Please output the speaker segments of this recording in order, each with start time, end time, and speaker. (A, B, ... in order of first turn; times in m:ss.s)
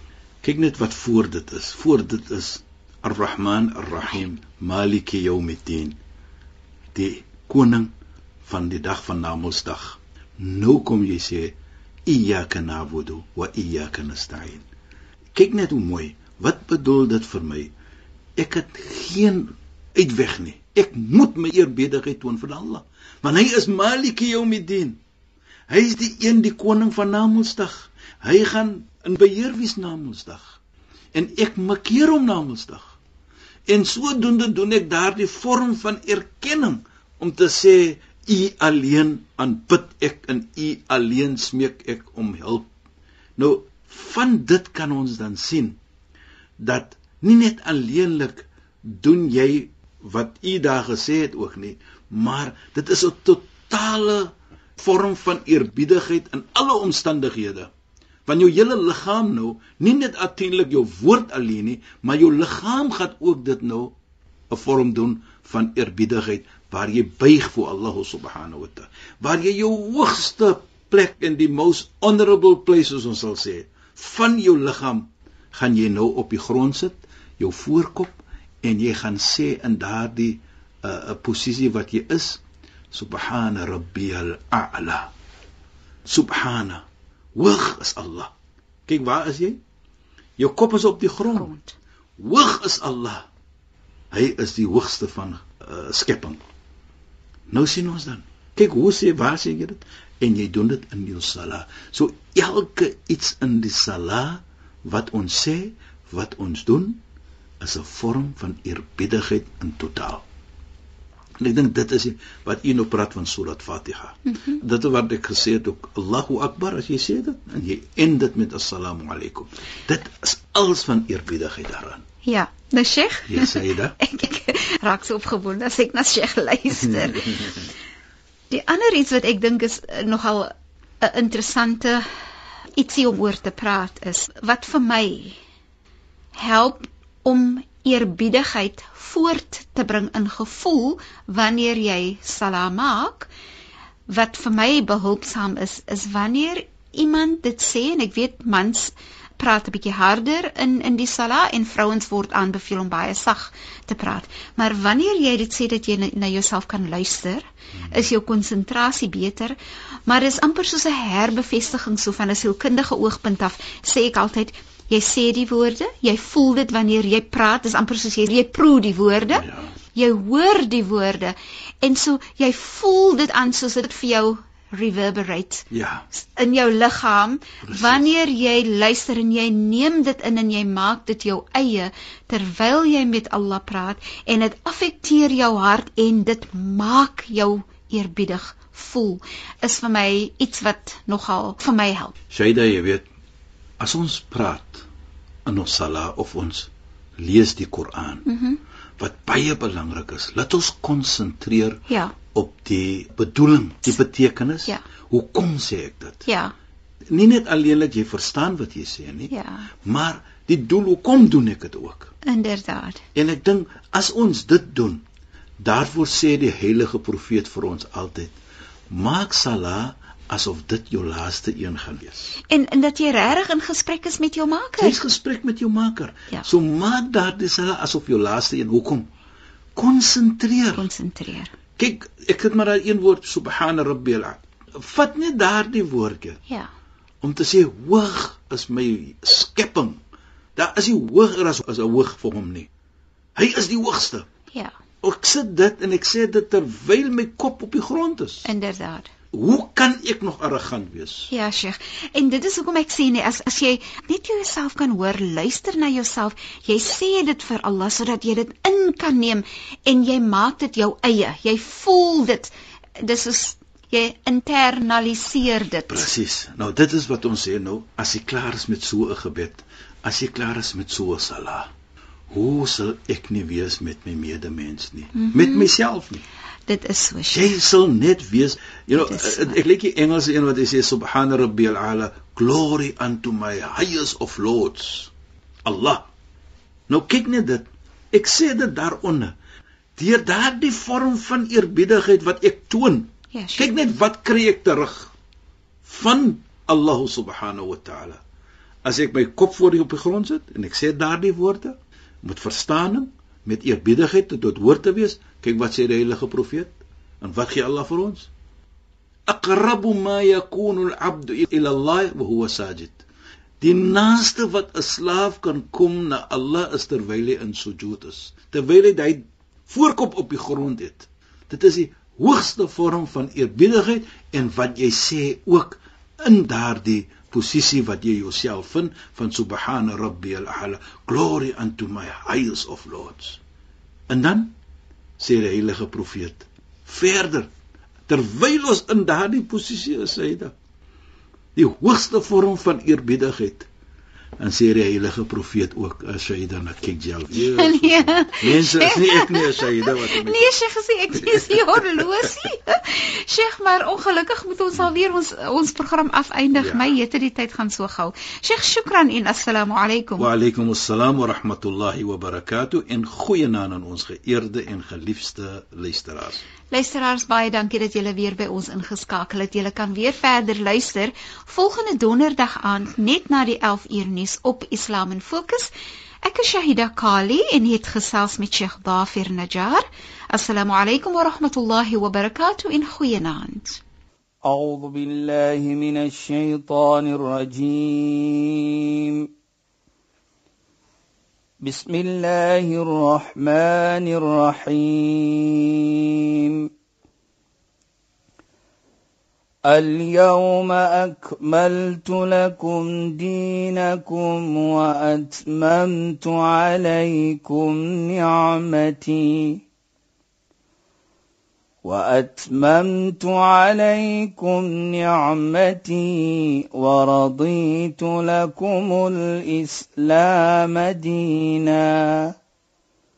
0:00.4-0:06.0 A
0:06.9-0:07.9 A
0:08.4-0:14.7 A
0:15.4-0:17.7 A
0:18.4-0:25.0 A
0:25.7-0:30.6 A
0:31.1-0:33.0 A
0:33.7-0:42.7 A
0:43.4-0:45.8 A
0:46.6-0:57.7 A
0:58.3-1:03.9 A
1:04.5-1:22.4 A
1:22.9-1:25.1 A
1:26.1-1:28.3 A
1:28.9-1:29.6 A
1:30.4-1:31.5 A
1:31.3-1:31.8 B
1:32.2-1:33.3 A
1:34.1-1:36.4 A
1:37.5-1:47.0 A
1:47.6-1:50.2 A
1:51.4-2:02.0 A
1:54.3-1:54.6 B
2:02.2-2:07.6 B
2:03.3-2:04.0 A
2:06.8-2:07.6 A
2:08.5-2:12.0 B
2:12.8-2:15.4 B
2:16.4-2:23.3 B
2:24.1-2:39.6 B
2:40.1-2:55.7 B
2:49.3-2:49.7 A
2:55.7-2:56.1 A
2:56.2-3:12.1 B
2:57.6-2:58.1 A
3:12.3-3:13.1 A
3:13.8-3:14.9 A
3:15.4-3:18.2 A
3:18.3-3:18.6 B
3:19.0-3:26.3 A
3:21.9-3:22.2 B
3:26.3-3:26.5 B
3:27.1-3:29.3 A
3:29.3-3:29.7 B
3:29.8-3:32.1 A
3:32.3-3:33.0 B
3:33.2-3:35.0 A
3:35.6-3:38.3 A
3:38.9-3:42.4 A
3:42.5-3:45.0 B
3:44.8-3:49.1 A
3:49.8-3:50.9 A
3:50.8-3:51.5 B
3:51.8-3:56.4 A
3:57.2-4:00.0 A
4:00.6-4:02.7 A
4:03.4-4:04.3 A
4:05.0-4:08.5 A
4:08.4-4:09.1 B
4:09.3-4:11.3 A
4:11.3-4:26.1 B
4:25.9-4:31.7 A
4:32.3-4:36.2 A
4:35.1-4:35.7 B
4:36.7-4:37.6 B
4:37.3-4:45.1 A
4:39.0-4:39.6 B
4:45.7-4:46.1 A
4:46.9-4:49.4 A
4:50.0-4:55.1 A
4:53.3-4:53.7 B
4:55.8-4:58.2 A
4:58.8-5:08.3 A
5:09.3-5:13.0 A
5:13.6-5:33.4 A
5:34.1-5:34.5 A
5:35.2-5:37.5 A
5:38.1-5:40.5 A
5:41.6-5:43.7 A
5:44.4-5:50.5 A
5:47.3-6:00.3 B
5:51.2-5:52.3 A
5:56.6-5:56.9 A
6:00.2-6:06.4 A
6:06.7-6:15.7 B
6:16.2-6:23.8 B
6:24.4-6:29.3 C
6:31.6-6:36.7 C
6:39.7-6:49.6 C
6:51.8-7:02.3 C